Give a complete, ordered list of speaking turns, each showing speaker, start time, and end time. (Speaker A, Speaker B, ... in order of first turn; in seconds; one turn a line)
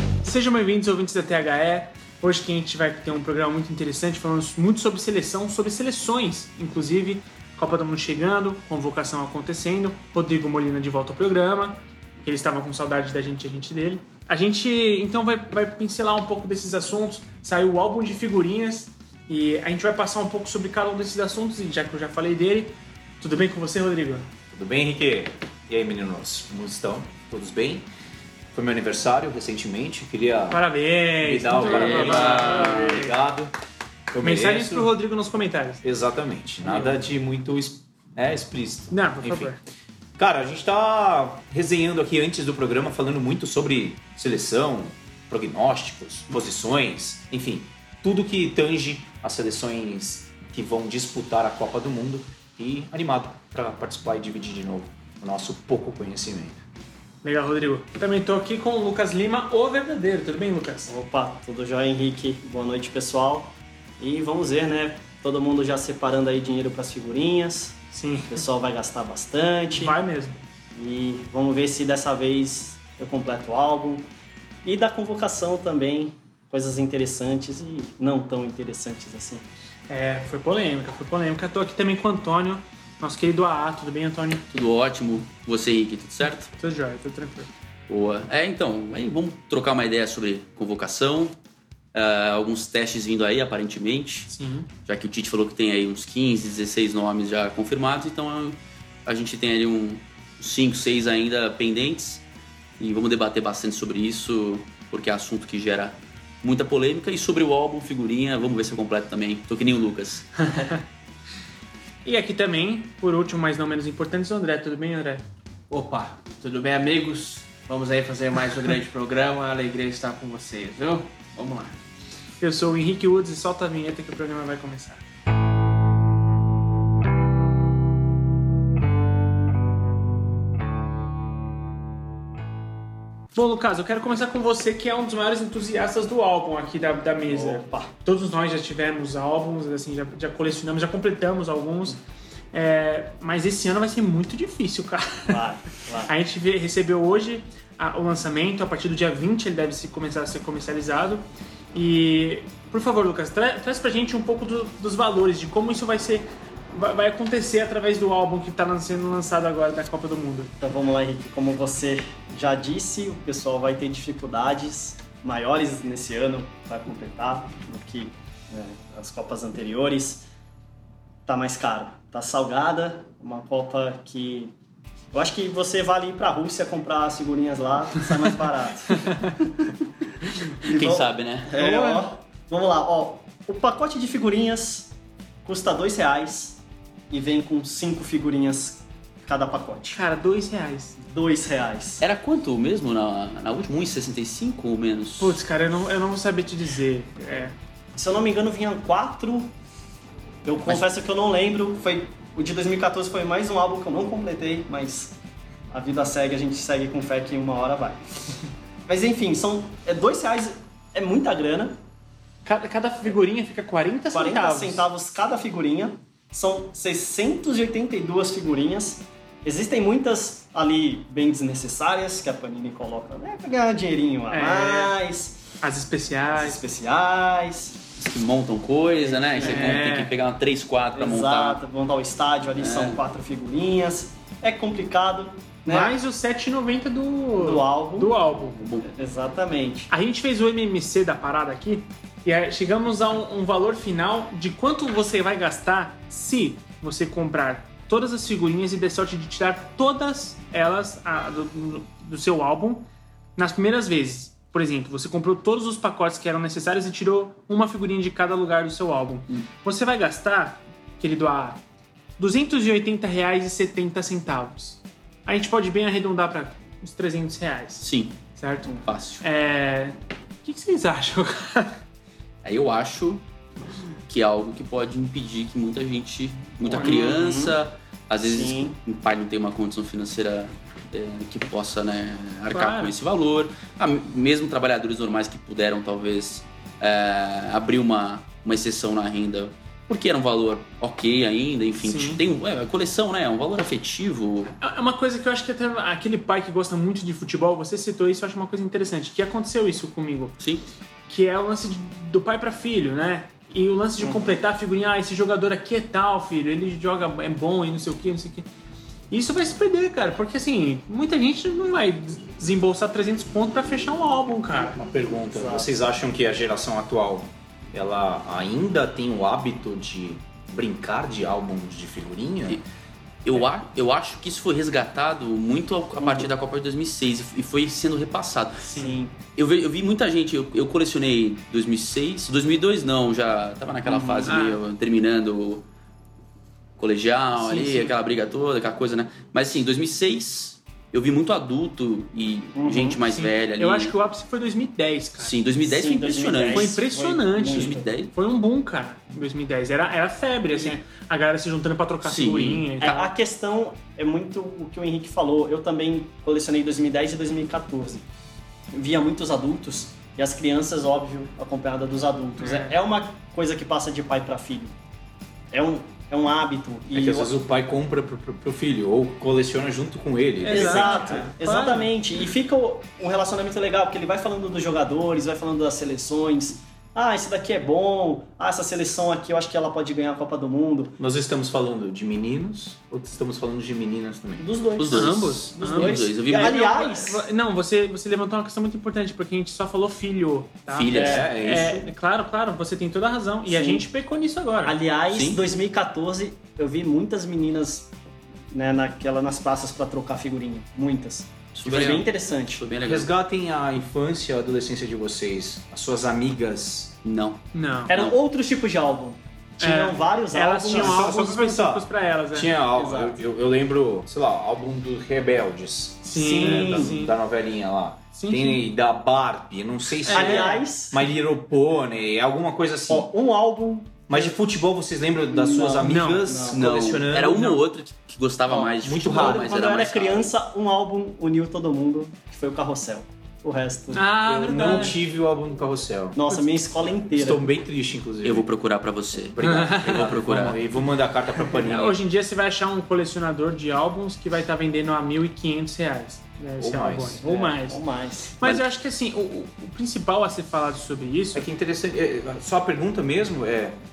Speaker A: 0.2-24.3
Speaker B: 24.5-27.9
Speaker B: 28.5-30.6
Speaker A: 30.5-33.2
Speaker B: 31.2-33.5
Speaker C: 31.7-32.9
Speaker B: 34.1-34.9
Speaker A: 34.2-35.8
Speaker B: 35.8-39.5
Speaker A: 36.6-37.0
Speaker A: 38.9-39.6
Speaker B: 40.2-56.6
Speaker A: 57.2-60.9
Speaker D: 60.9-67.8
Speaker A: 67.9-68.5
Speaker D: 68.3-70.0
Speaker A: 69.7-70.4
Speaker D: 70.7-74.1
Speaker D: 74.6-79.4
Speaker A: 79.9-84.4
Speaker C: 84.5-86.5
Speaker A: 86.5-87.5
Speaker C: 87.9-91.3
Speaker C: 91.9-94.3
Speaker A: 94.3-94.7
Speaker C: 94.8-102.2
Speaker C: 102.8-110.5
Speaker A: 112.0-115.2
Speaker E: 115.7-121.8
Speaker A: 122.4-125.0
Speaker A: 133.3-142.0
Speaker D: 137.3-137.9
Speaker A: 142.5-145.4
Speaker D: 145.3-146.1
Speaker A: 146.1-160.5
Speaker D: 160.6-170.2
Speaker D: 171.2-174.5
Speaker D: 175.1-179.5
Speaker A: 178.9-179.3
Speaker D: 180.6-184.9
Speaker C: 180.7-181.5
Speaker A: 181.5-182.1
Speaker D: 185.4-189.9
Speaker A: 189.9-191.0
Speaker D: 191.0-192.0
Speaker C: 192.0-195.4
Speaker A: 195.2-197.5
Speaker D: 197.9-199.5
Speaker D: 200.4-205.2
Speaker D: 205.7-208.0
Speaker D: 208.9-211.8
Speaker A: 212.4-214.8
Speaker D: 214.1-225.4
Speaker A: 224.3-224.9
Speaker A: 225.6-226.6
Speaker D: 226.3-227.8
Speaker C: 228.0-231.6
Speaker D: 228.9-229.8
Speaker A: 229.4-230.1
Speaker D: 230.9-235.9
Speaker C: 232.6-233.0
Speaker A: 235.7-238.6
Speaker D: 237.4-238.2
Speaker C: 238.3-238.8
Speaker D: 238.8-239.9
Speaker A: 239.9-261.6
Speaker A: 262.2-268.7
Speaker C: 267.8-268.1
Speaker C: 268.8-269.2
Speaker A: 269.2-271.8
Speaker C: 272.4-273.2
Speaker C: 274.1-294.5
Speaker D: 276.7-277.6
Speaker D: 278.2-278.7
Speaker A: 282.5-282.9
Speaker A: 291.8-292.2
Speaker A: 294.6-300.3
Speaker C: 300.4-300.6
Speaker A: 301.1-308.5
Speaker A: 309.1-314.8
Speaker B: 314.8-322.6
Speaker D: 315.3-315.7
Speaker C: 323.2-328.7
Speaker D: 326.0-326.3
Speaker A: 328.7-328.9
Speaker D: 328.7-329.1
Speaker C: 329.3-335.6
Speaker D: 333.8-334.3
Speaker A: 334.3-334.6
Speaker C: 336.8-343.9
Speaker A: 337.4-337.9
Speaker D: 342.6-343.0
Speaker A: 343.1-345.4
Speaker C: 345.2-346.9
Speaker D: 345.6-347.9
Speaker A: 346.5-353.0
Speaker C: 347.4-348.1
Speaker C: 352.0-353.1
Speaker D: 352.8-358.1
Speaker D: 358.7-364.7
Speaker A: 362.4-362.8
Speaker D: 365.5-367.3
Speaker B: 366.9-371.3
Speaker D: 370.4-381.0
Speaker A: 370.4-371.9
Speaker B: 381.0-384.4
Speaker D: 384.4-387.2
Speaker C: 384.8-386.6
Speaker A: 384.9-394.8
Speaker C: 390.7-391.3
Speaker B: 390.9-391.9
Speaker D: 390.9-391.3
Speaker D: 393.4-393.9
Speaker D: 394.6-397.9
Speaker C: 395.1-395.4
Speaker D: 398.5-402.7
Speaker C: 401.5-403.1
Speaker B: 402.8-406.9
Speaker C: 407.0-408.2
Speaker A: 407.5-407.9
Speaker D: 407.9-411.1
Speaker A: 409.6-412.5
Speaker B: 410.7-423.1
Speaker D: 412.7-413.2
Speaker A: 416.0-417.2
Speaker D: 416.1-416.9
Speaker A: 418.1-418.6
Speaker A: 420.1-420.6
Speaker D: 420.1-421.0
Speaker D: 422.9-424.4
Speaker B: 424.1-427.6
Speaker D: 425.3-426.6
Speaker A: 425.8-426.2
Speaker C: 426.5-430.3
Speaker D: 428.5-434.9
Speaker B: 428.8-429.6
Speaker A: 433.9-435.0
Speaker B: 434.2-436.2
Speaker D: 436.1-437.5
Speaker B: 437.1-438.5
Speaker C: 438.2-440.6
Speaker B: 439.3-442.0
Speaker A: 439.4-440.0
Speaker A: 441.5-447.8
Speaker B: 446.6-447.2
Speaker D: 447.2-448.4
Speaker A: 448.4-451.5
Speaker B: 451.3-453.8